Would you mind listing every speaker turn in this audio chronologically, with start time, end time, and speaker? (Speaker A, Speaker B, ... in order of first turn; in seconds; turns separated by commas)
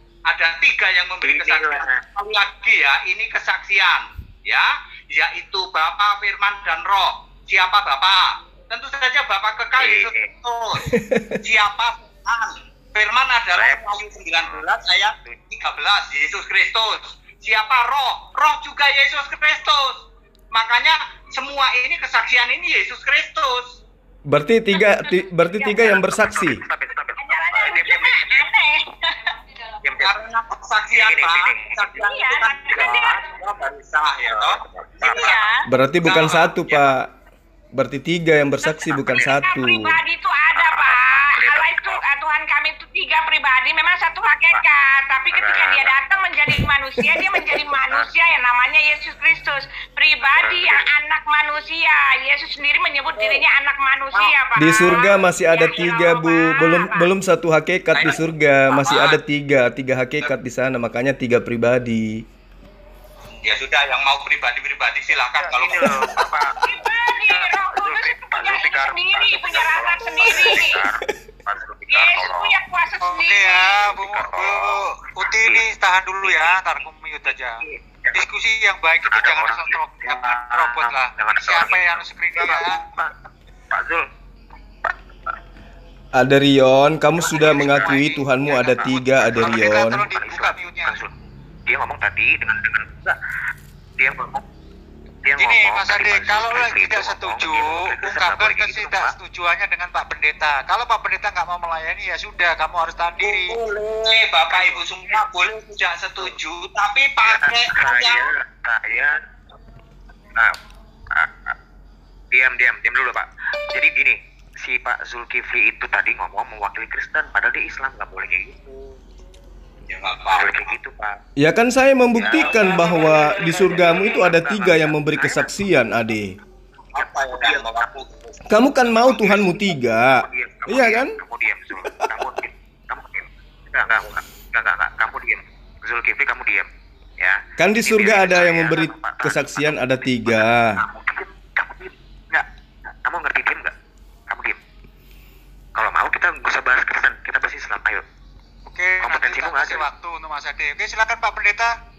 Speaker A: 0.3-10.8, Speaker B: 1.2-2.0, Speaker B: 9.8-10.3, Speaker C: 10.9-11.3, Speaker A: 11.4-23.8, Speaker B: 13.5-14.7, Speaker C: 24.3-26.6, Speaker D: 24.8-26.0, Speaker B: 25.7-28.5, Speaker D: 27.2-29.3, Speaker B: 29.8-30.2, Speaker A: 30.0-35.4, Speaker B: 30.9-32.0, Speaker D: 31.9-33.2, Speaker B: 32.7-33.0, Speaker B: 34.4-35.3, Speaker D: 35.0-35.6, Speaker C: 35.7-37.1, Speaker A: 36.0-36.9, Speaker C: 37.7-40.0, Speaker D: 38.6-57.1, Speaker B: 40.5-42.0, Speaker B: 45.3-46.0, Speaker B: 50.2-50.9, Speaker C: 54.6-62.2, Speaker A: 58.8-59.2, Speaker A: 63.4-65.9, Speaker B: 65.1-72.5, Speaker D: 66.6-70.8, Speaker D: 71.9-73.8, Speaker E: 73.1-77.6, Speaker B: 73.8-75.6, Speaker B: 76.2-76.6, Speaker B: 77.2-78.2, Speaker E: 78.1-82.8, Speaker B: 79.0-83.1, Speaker B: 83.7-84.1, Speaker C: 86.2-90.0, Speaker B: 87.2-91.1, Speaker E: 89.3-91.0, Speaker B: 91.7-93.2, Speaker B: 94.0-94.4, Speaker B: 95.2-99.2, Speaker E: 95.3-103.6, Speaker A: 103.2-108.3, Speaker B: 104.5-105.2, Speaker B: 107.2-109.1, Speaker B: 111.1-111.5, Speaker B: 112.3-118.6, Speaker A: 119.9-120.6, Speaker B: 120.2-121.2, Speaker C: 121.4-126.4, Speaker B: 122.1-125.5, Speaker B: 126.9-128.0, Speaker A: 126.9-128.1, Speaker C: 128.5-131.2, Speaker B: 129.1-136.7, Speaker C: 131.8-132.3, Speaker B: 137.2-142.4, Speaker C: 137.6-140.8, Speaker B: 143.0-143.7, Speaker B: 144.3-144.6, Speaker B: 145.7-148.0, Speaker E: 148.7-151.7, Speaker B: 149.0-149.9